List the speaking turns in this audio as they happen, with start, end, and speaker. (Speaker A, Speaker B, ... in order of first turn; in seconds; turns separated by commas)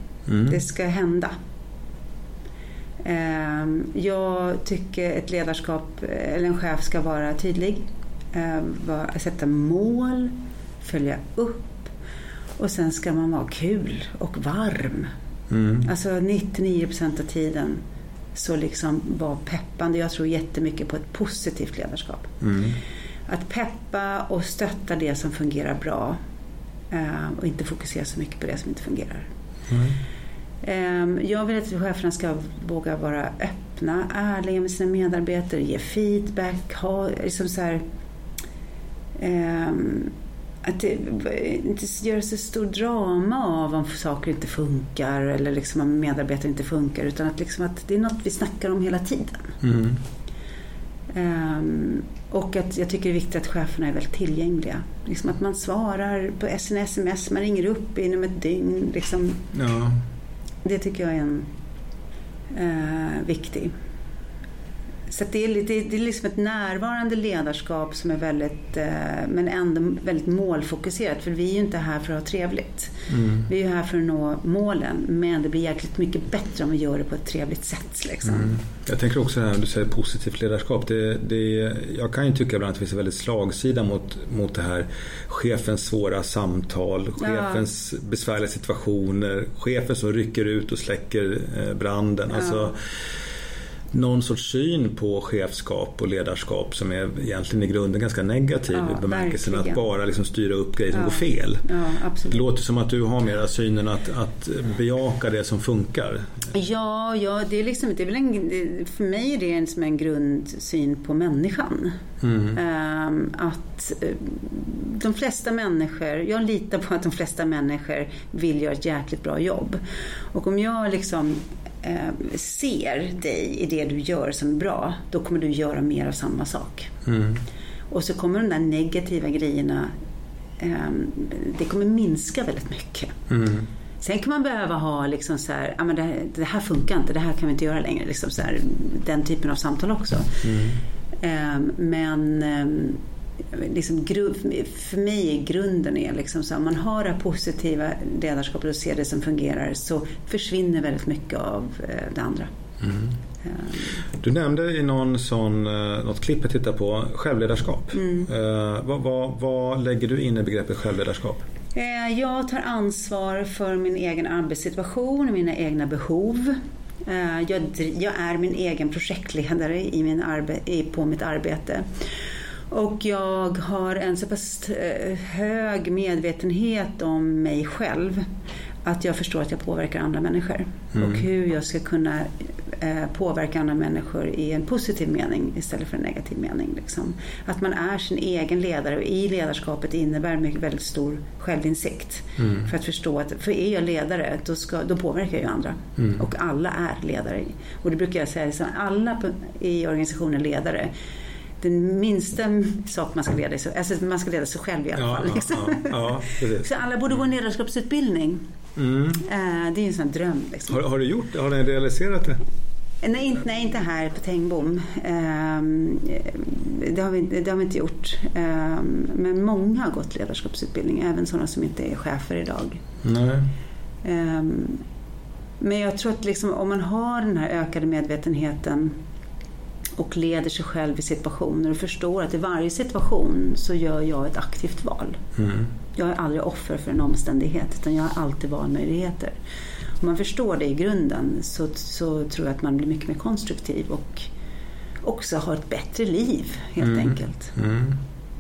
Speaker A: 0.3-0.6, Speaker B: 0.5-1.4, Speaker B: 3.0-11.9, Speaker B: 12.6-15.1, Speaker A: 15.5-15.9, Speaker B: 15.8-17.8, Speaker B: 18.4-22.4, Speaker A: 22.4-22.8, Speaker B: 23.3-26.2, Speaker B: 26.9-29.3, Speaker A: 29.7-30.0, Speaker B: 30.6-37.8, Speaker B: 39.2-49.6, Speaker A: 49.6-50.0, Speaker B: 51.1-59.5, Speaker A: 59.5-60.0, Speaker B: 60.6-61.5, Speaker B: 62.5-63.7, Speaker B: 65.1-78.6, Speaker A: 73.1-73.5, Speaker A: 78.3-92.8, Speaker B: 87.2-87.6, Speaker B: 92.3-92.7, Speaker A: 93.9-101.6, Speaker B: 98.7-99.8, Speaker B: 100.9-102.5, Speaker A: 102.3-106.5, Speaker B: 106.5-112.0, Speaker A: 112.2-112.6, Speaker B: 112.5-119.8, Speaker B: 120.3-126.9, Speaker A: 127.1-127.4, Speaker B: 127.9-129.9, Speaker B: 130.6-133.2, Speaker A: 133.3-133.7, Speaker B: 134.0-140.4, Speaker A: 140.4-140.8, Speaker B: 141.2-143.0, Speaker B: 143.5-152.5, Speaker A: 152.8-153.1, Speaker B: 153.4-153.8, Speaker A: 154.2-161.4, Speaker B: 158.0-158.3, Speaker B: 161.8-171.8, Speaker B: 172.7-178.2, Speaker B: 178.8-200.9, Speaker A: 180.9-181.2, Speaker A: 192.4-192.7, Speaker B: 201.6-208.4, Speaker A: 205.0-206.7, Speaker A: 208.8-209.2, Speaker B: 209.2-210.8, Speaker A: 210.7-212.4, Speaker B: 213.0-222.8, Speaker A: 223.0-223.5, Speaker B: 224.0-224.8, Speaker B: 225.6-229.0, Speaker B: 230.0-235.2, Speaker A: 235.4-235.7, Speaker B: 236.0-239.4, Speaker B: 240.0-244.3, Speaker B: 245.0-247.5, Speaker A: 246.8-248.0